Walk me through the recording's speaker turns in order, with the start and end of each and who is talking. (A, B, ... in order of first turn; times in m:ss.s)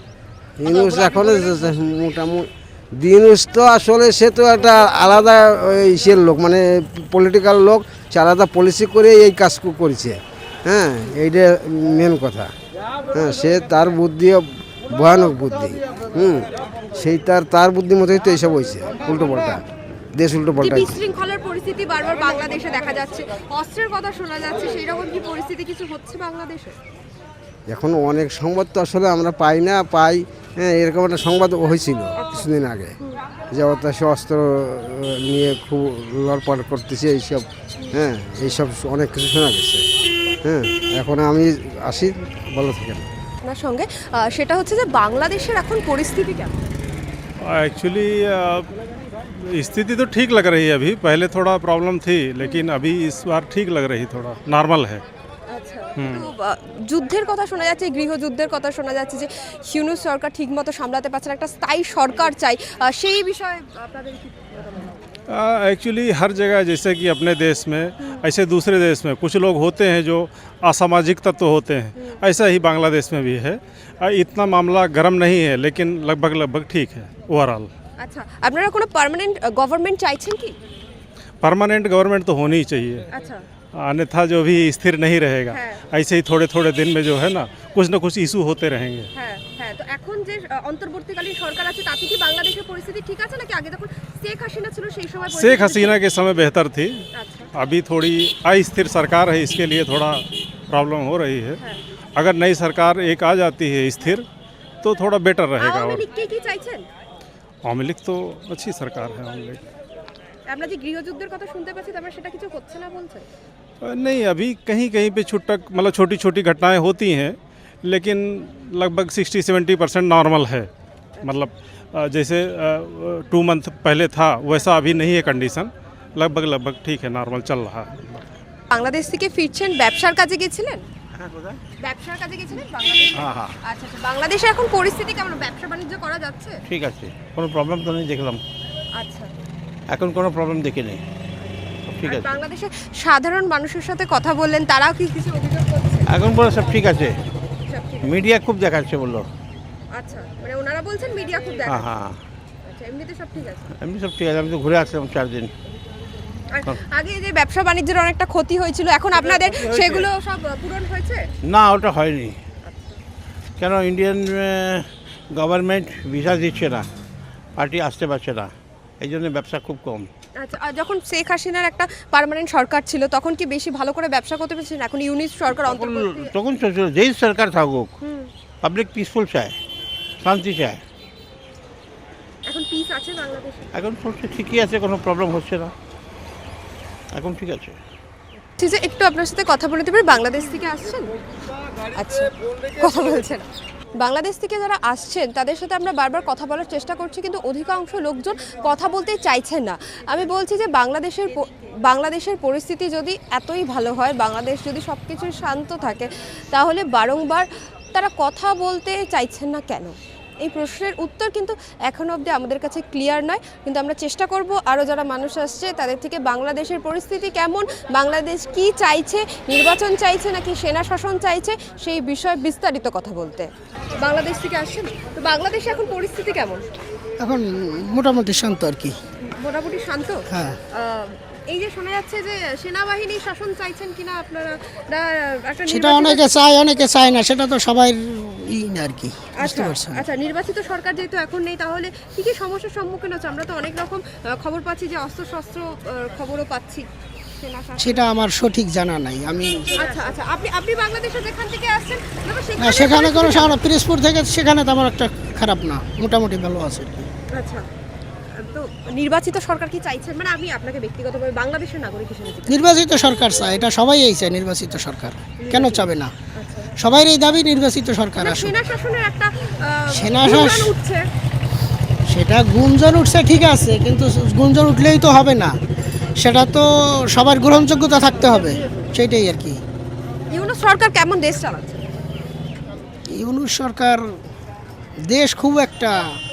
0:00.6-0:12.5 A
0:13.1-0:21.0 A
0:20.6-0:26.8 B
0:27.7-0:33.0 A
0:33.5-0:39.8 A
0:40.4-0:43.1 A
0:43.4-0:46.5 B
0:47.4-0:48.7 C
0:49.4-0:55.0 C
0:55.5-1:05.0 B
0:56.0-0:56.3 C
1:05.3-1:17.7 C
1:18.0-1:20.6 B
1:21.4-1:23.1 C
1:23.1-1:23.4 B
1:23.8-1:29.1 C
1:25.5-1:25.8 B
1:29.2-1:36.0 B
1:35.3-1:41.6 C
1:37.1-1:37.5 B
1:42.2-1:44.3 C
1:44.8-1:46.1 C
1:45.6-1:46.9 B
1:47.6-1:49.6 C
1:50.5-1:53.3 B
1:53.8-2:00.7 C
2:01.2-2:08.2 C
2:08.7-2:10.8 B
2:11.2-2:11.6 D
2:11.8-2:16.6 B
2:13.2-2:13.5 D
2:16.7-2:18.4 D
2:19.0-2:19.3 B
2:19.9-2:21.0 D
2:21.8-2:22.3 D
2:22.0-2:26.1 B
2:26.1-2:27.1 D
2:27.7-2:28.2 B
2:28.0-2:29.3 D
2:29.9-2:31.9 B
2:31.7-2:32.2 D
2:32.6-2:33.7 B
2:33.8-2:35.5 D
2:36.5-2:41.2 B
2:39.2-2:40.1 D
2:41.5-2:42.4 D
2:42.6-2:43.0 B
2:43.6-2:46.8 D
2:47.6-2:50.1 D
2:50.4-2:56.3 B
2:55.6-2:57.9 D
2:58.0-2:58.3 B
2:58.6-2:59.6 D
3:00.2-3:00.8 D
3:02.5-3:03.7 B
3:03.8-3:05.7 D
3:07.1-3:07.8 D
3:08.6-3:11.1 B
3:11.9-3:13.5 B
3:14.0-3:43.5 B
3:44.0-3:46.6 B
3:47.2-3:49.0 E
3:49.2-3:56.4 B
3:50.3-3:50.6 E
3:55.7-4:00.0 E
3:59.4-4:08.0 B
4:07.8-4:09.9 E
4:09.8-4:13.6 B
4:12.6-4:17.1 E
4:17.3-4:17.7 B
4:18.3-4:22.7 B
4:22.5-4:26.1 E
4:25.4-4:26.7 B
4:26.8-4:28.6 E
4:28.2-4:31.0 B
4:29.9-4:30.8 E
4:32.1-4:35.5 E
4:36.2-4:39.6 E
4:40.3-4:41.8 B
4:43.1-4:44.0 E
4:45.1-4:46.0 E